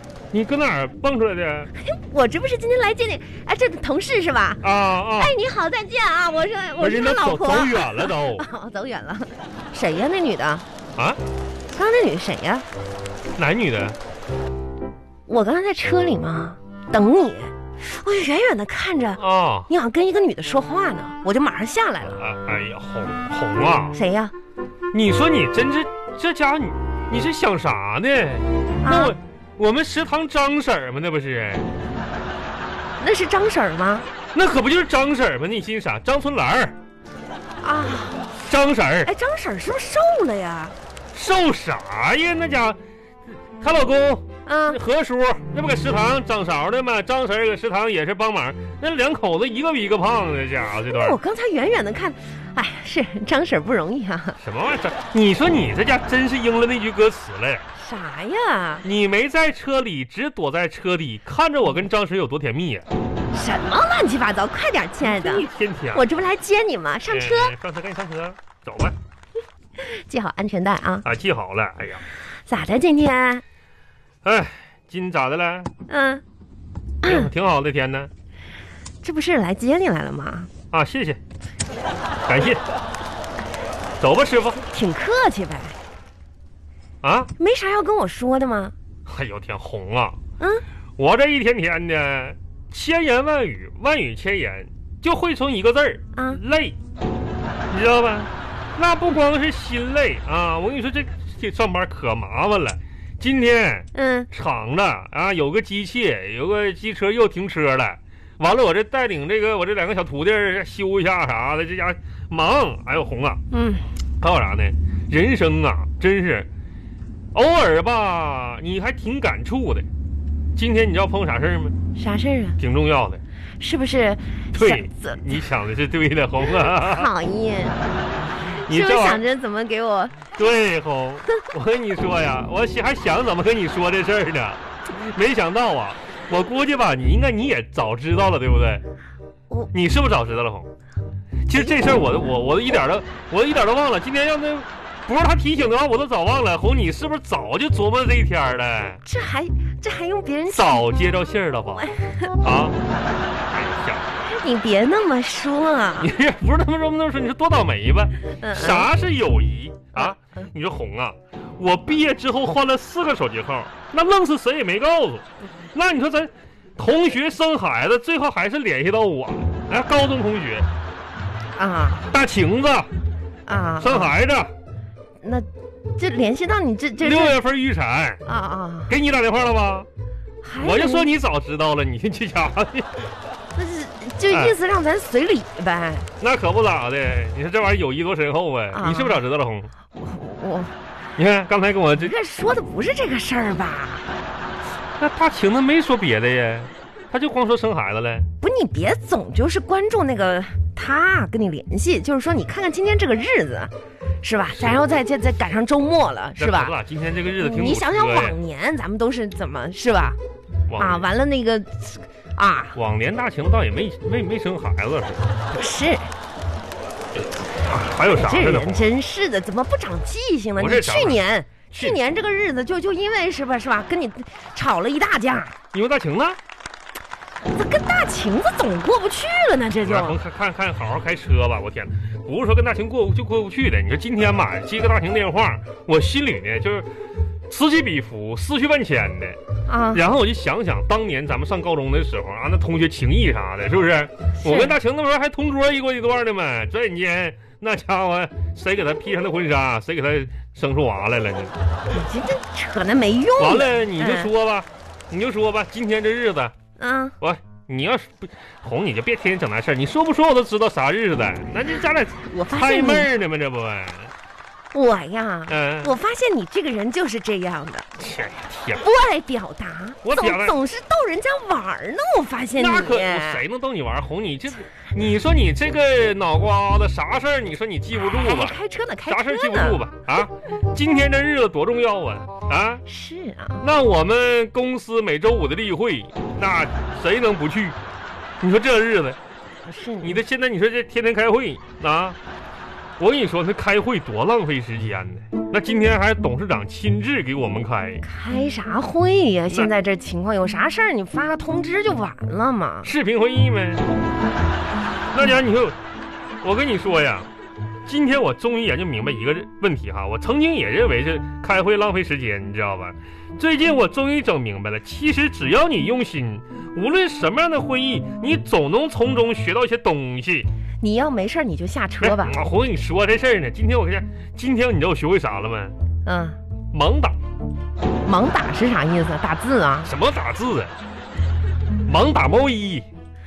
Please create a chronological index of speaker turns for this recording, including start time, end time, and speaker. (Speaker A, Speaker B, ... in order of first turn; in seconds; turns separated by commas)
Speaker A: 0.3-1.7, Speaker B: 1.7-4.6, Speaker A: 4.6-5.3, Speaker B: 5.2-10.6, Speaker A: 6.8-8.4, Speaker B: 11.7-12.7, Speaker A: 13.3-14.0, Speaker B: 15.3-22.2, Speaker A: 19.2-19.7, Speaker A: 22.2-24.0, Speaker B: 23.9-24.3, Speaker A: 24.9-31.7, Speaker B: 28.8-29.2, Speaker B: 33.0-34.0, Speaker A: 34.3-36.8, Speaker B: 37.6-38.3, Speaker A: 38.4-39.1, Speaker B: 39.0-40.7, Speaker A: 41.1-42.8, Speaker A: 43.6-51.2, Speaker B: 44.5-44.8, Speaker B: 50.8-54.4, Speaker A: 54.4-57.6, Speaker B: 57.8-58.9, Speaker A: 58.8-62.9, Speaker B: 63.3-67.5, Speaker A: 65.0-66.1, Speaker A: 67.1-69.0, Speaker B: 69.8-71.0, Speaker A: 71.0-72.0, Speaker B: 72.5-73.4, Speaker A: 74.2-75.7, Speaker B: 75.9-76.2, Speaker B: 77.0-77.3, Speaker A: 77.0-78.1, Speaker B: 79.0-80.5, Speaker A: 80.7-81.2, Speaker A: 82.3-82.6, Speaker A: 84.0-84.6, Speaker B: 84.7-85.8, Speaker A: 87.0-87.3, Speaker B: 87.4-88.7, Speaker A: 89.1-90.2, Speaker A: 91.0-96.8, Speaker B: 96.1-96.4, Speaker A: 97.7-113.4, Speaker B: 103.9-104.3, Speaker B: 113.5-113.8, Speaker A: 114.2-116.5, Speaker A: 117.3-119.8, Speaker A: 120.5-121.8, Speaker B: 121.9-122.6, Speaker A: 122.6-123.2, Speaker B: 123.6-125.4, Speaker A: 124.5-127.1, Speaker B: 126.6-127.8, Speaker B: 128.4-130.2, Speaker A: 128.5-129.2, Speaker A: 130.3-138.8, Speaker A: 139.7-140.7, Speaker A: 141.4-149.0, Speaker B: 141.5-141.8, Speaker B: 149.0-150.9, Speaker A: 150.5-151.9, Speaker B: 151.7-152.4, Speaker A: 152.4-152.8, Speaker A: 153.5-154.0, Speaker B: 154.2-156.1, Speaker A: 156.0-170.7, Speaker B: 158.3-158.9, Speaker B: 171.5-172.1, Speaker A: 172.1-172.9, Speaker B: 173.5-174.1, Speaker A: 173.8-174.5, Speaker B: 175.2-177.4, Speaker A: 177.0-178.2, Speaker B: 178.2-178.9, Speaker A: 178.9-179.9, Speaker B: 180.4-181.1, Speaker A: 180.6-182.9, Speaker B: 183.5-186.1, Speaker A: 184.3-184.5, Speaker A: 186.2-189.7, Speaker B: 188.7-189.2, Speaker B: 189.9-190.7, Speaker A: 191.2-192.1, Speaker B: 191.9-194.1, Speaker A: 195.0-198.3, Speaker B: 198.4-206.7, Speaker A: 206.4-208.4, Speaker B: 207.4-210.2, Speaker A: 210.7-211.1, Speaker B: 210.8-212.8, Speaker A: 212.8-215.2, Speaker B: 215.5-216.1, Speaker A: 217.6-218.9, Speaker B: 218.1-225.5, Speaker A: 220.6-221.2, Speaker A: 225.7-226.4, Speaker B: 227.4-230.2, Speaker A: 229.8-236.9, Speaker A: 237.5-239.4, Speaker B: 239.7-240.0, Speaker A: 239.9-251.5, Speaker B: 244.4-244.7, Speaker B: 251.9-254.3, Speaker A: 253.4-256.5, Speaker B: 256.8-257.1, Speaker A: 257.2-264.1, Speaker B: 262.2-263.1, Speaker B: 264.7-267.9, Speaker A: 265.5-265.9, Speaker A: 268.0-268.8, Speaker B: 268.8-273.4, Speaker A: 270.0-270.6, Speaker A: 272.6-282.8, Speaker B: 278.0-279.8, Speaker B: 282.9-283.6, Speaker A: 283.6-287.8, Speaker A: 288.4-289.2, Speaker B: 289.7-290.2, Speaker A: 290.0-292.2, Speaker A: 293.0-298.1, Speaker B: 298.0-302.9, Speaker A: 302.8-303.9, Speaker A: 305.1-305.8, Speaker A: 306.4-307.3, Speaker A: 307.9-320.5, Speaker B: 320.8-322.4, Speaker A: 322.0-325.8, Speaker B: 326.1-326.4, Speaker A: 326.7-327.2, Speaker B: 328.1-329.9, Speaker A: 329.9-330.7, Speaker A: 331.9-332.9